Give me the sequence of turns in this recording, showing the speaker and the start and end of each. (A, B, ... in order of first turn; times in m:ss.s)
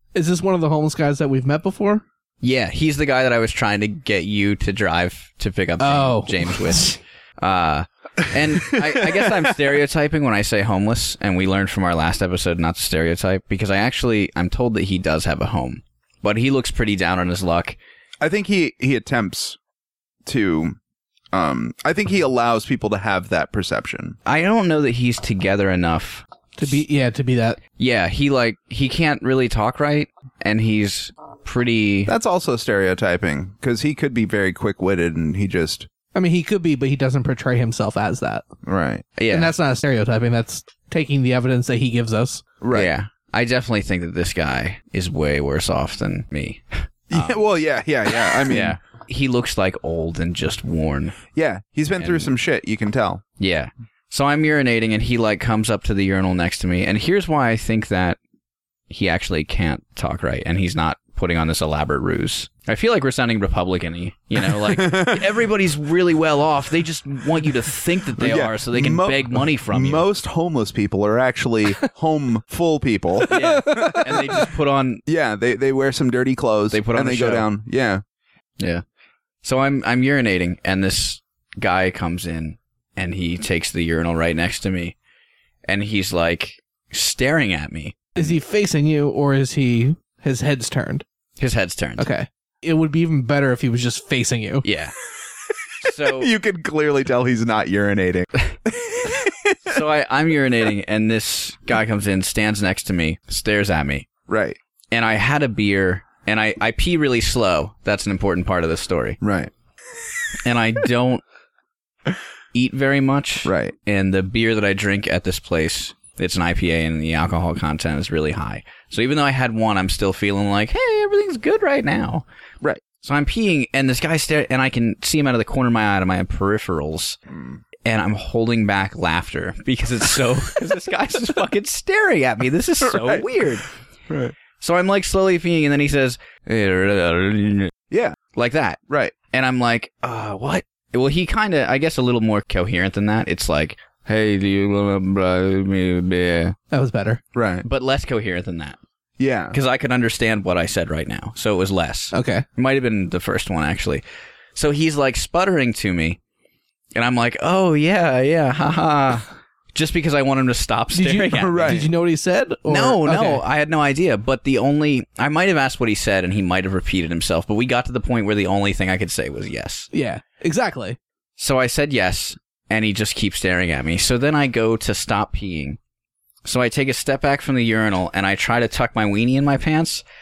0:00.1-0:02.0 A
0:02.4-0:17.8 B
0:05.8-0:07.0 A
0:08.7-0:09.3 C
0:18.2-0:19.6 C
0:20.3-0:20.8 C
0:21.3-0:24.2 C
0:24.2-0:26.8 B
0:26.6-0:27.6 A
0:27.8-0:32.1 B
0:32.1-0:35.9 C
0:36.2-0:38.5 A
0:38.6-0:39.1 C
0:39.2-0:39.5 B
0:39.3-0:42.4 A
0:42.6-0:42.9 C
0:42.7-0:47.4 B
0:47.1-0:48.8 C
0:48.3-0:51.2 B
0:51.3-0:53.2 C
0:52.0-0:52.3 B
0:53.4-0:58.2 B
0:58.9-1:10.0 B
1:04.6-1:05.2 C
1:08.2-1:14.4 C
1:13.3-1:14.5 A
1:13.3-1:15.0 B
1:15.1-1:18.0 C
1:16.7-1:17.5 B
1:19.4-1:25.0 B
1:25.7-1:28.3 B
1:28.2-1:31.0 A
1:31.4-1:32.1 B
1:32.0-1:34.6 A
1:34.6-1:34.9 B
1:35.8-1:36.3 B
1:36.0-1:39.8 C
1:39.7-1:44.1 B
1:44.3-1:44.6 C
1:44.9-1:49.2 B
1:49.2-1:49.5 C
1:50.4-1:51.2 B
1:52.5-2:02.2 B
1:53.4-1:53.7 C
2:03.0-2:07.2 B
2:07.3-2:07.6 C
2:07.8-2:13.7 B
2:12.8-2:13.4 C
2:14.1-2:14.4 C
2:14.6-2:17.7 B
2:17.9-2:18.2 C
2:18.4-2:18.8 B
2:18.9-2:19.1 C
2:19.3-2:26.6 B
2:26.7-2:27.2 A
2:27.4-2:27.6 C
2:27.6-2:28.8 B
2:29.2-2:29.6 C
2:29.5-2:34.0 B
2:32.1-2:32.5 A
2:34.6-2:36.2 B
2:37.0-2:41.8 B
2:40.9-2:43.4 A
2:41.3-2:41.9 C
2:42.7-2:49.9 B
2:49.9-2:51.0 A
2:51.4-2:55.8 B
2:56.4-3:00.0 B